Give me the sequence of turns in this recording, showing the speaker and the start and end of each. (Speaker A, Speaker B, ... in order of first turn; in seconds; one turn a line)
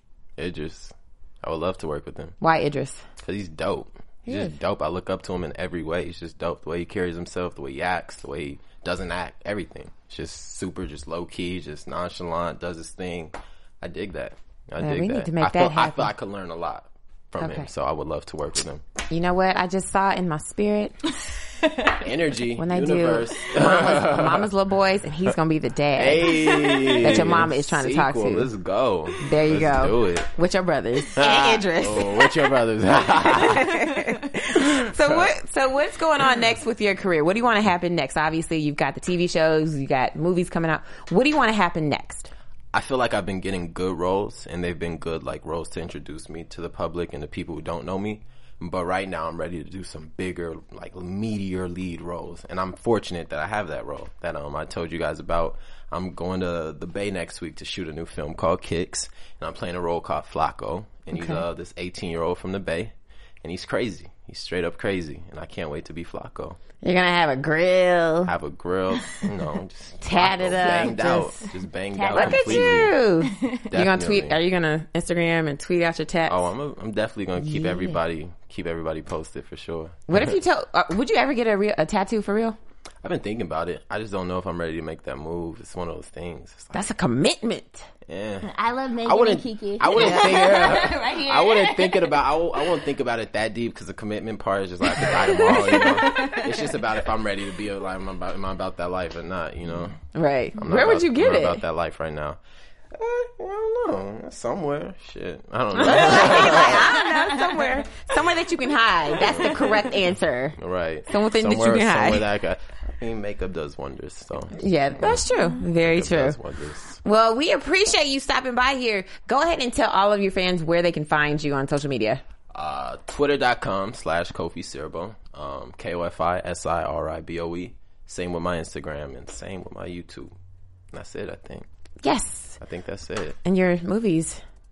Speaker A: 0.4-2.4
Speaker B: 2.4-3.0
Speaker A: 3.2-18.8
Speaker B: 4.3-4.5
Speaker B: 14.8-16.1
Speaker B: 17.4-17.7
Speaker B: 19.1-20.9
Speaker C: 21.6-22.0
Speaker A: 22.0-24.5
Speaker B: 22.6-28.5
Speaker A: 25.9-30.3
Speaker C: 26.4-27.3
Speaker B: 29.2-32.5
Speaker A: 31.1-33.7
Speaker B: 33.1-42.3
Speaker A: 34.5-35.3
Speaker A: 42.7-66.6
Speaker B: 61.1-61.4
Speaker B: 66.8-68.3
Speaker A: 68.2-73.0
Speaker B: 70.0-71.3
Speaker C: 70.6-71.2
Speaker C: 71.9-73.6
Speaker B: 72.1-76.4
Speaker A: 73.7-74.4
Speaker A: 76.3-80.4
Speaker B: 77.4-78.0
Speaker B: 80.1-82.6
Speaker A: 83.0-86.8
Speaker B: 86.7-87.9
Speaker A: 88.1-88.5
Speaker C: 88.4-92.8
Speaker A: 89.0-100.0
Speaker B: 89.9-90.4
Speaker C: 94.9-96.9
Speaker B: 95.6-96.0
Speaker B: 100.2-101.6
Speaker A: 100.6-102.4
Speaker A: 102.9-107.0
Speaker B: 105.8-112.3
Speaker C: 105.8-107.7
Speaker A: 109.2-109.8
Speaker C: 109.5-109.8
Speaker A: 110.6-117.0
Speaker B: 114.6-116.4
Speaker B: 117.0-122.2
Speaker A: 122.5-130.3
Speaker A: 130.9-131.7
Speaker B: 132.0-132.6
Speaker A: 132.6-133.4
Speaker B: 133.4-134.4